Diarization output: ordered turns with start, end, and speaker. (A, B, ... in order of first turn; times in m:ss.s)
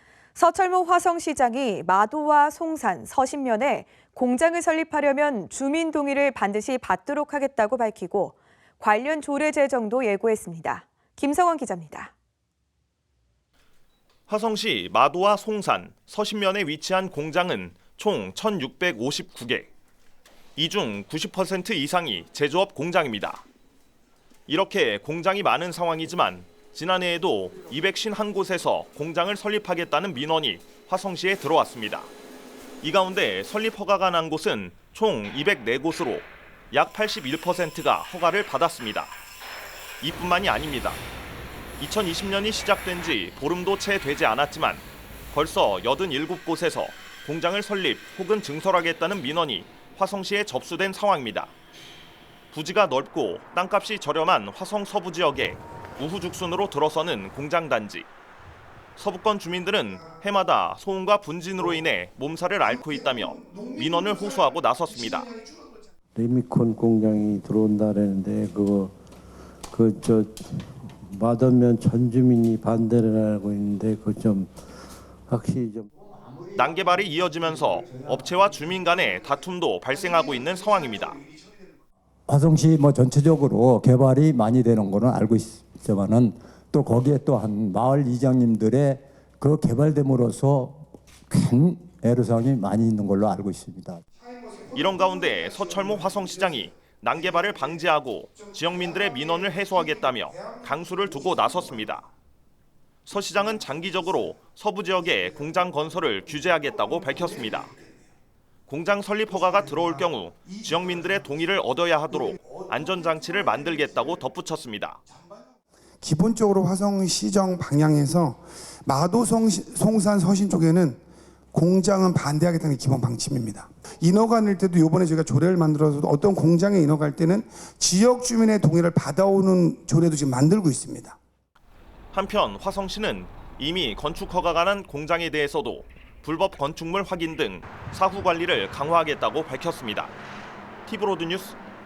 0:00.4-0:12.1 A
0:14.3-0:19.7 B
0:20.6-0:23.4 B
0:24.5-0:32.1 B
0:32.8-0:39.1 B
0:40.0-0:41.0 B
0:41.8-0:51.5 B
0:52.5-0:58.1 B
0:59.0-1:05.3 B
1:02.7-1:05.8 C
1:06.2-1:09.0 D
1:09.7-1:14.5 D
1:15.3-1:15.9 D
1:16.0-1:18.4 E
1:16.6-1:21.2 B
1:22.3-1:34.0 E
1:34.3-1:36.7 C
1:34.7-1:42.1 B
1:37.3-1:37.8 C
1:38.4-1:41.9 C
1:43.1-1:47.7 B
1:46.6-1:47.9 C
1:48.7-1:55.0 B
1:49.6-1:51.2 C
1:52.2-1:54.1 C
1:56.0-2:01.0 C
2:01.5-2:11.2 C
2:12.1-2:20.1 B
2:20.9-2:21.6 B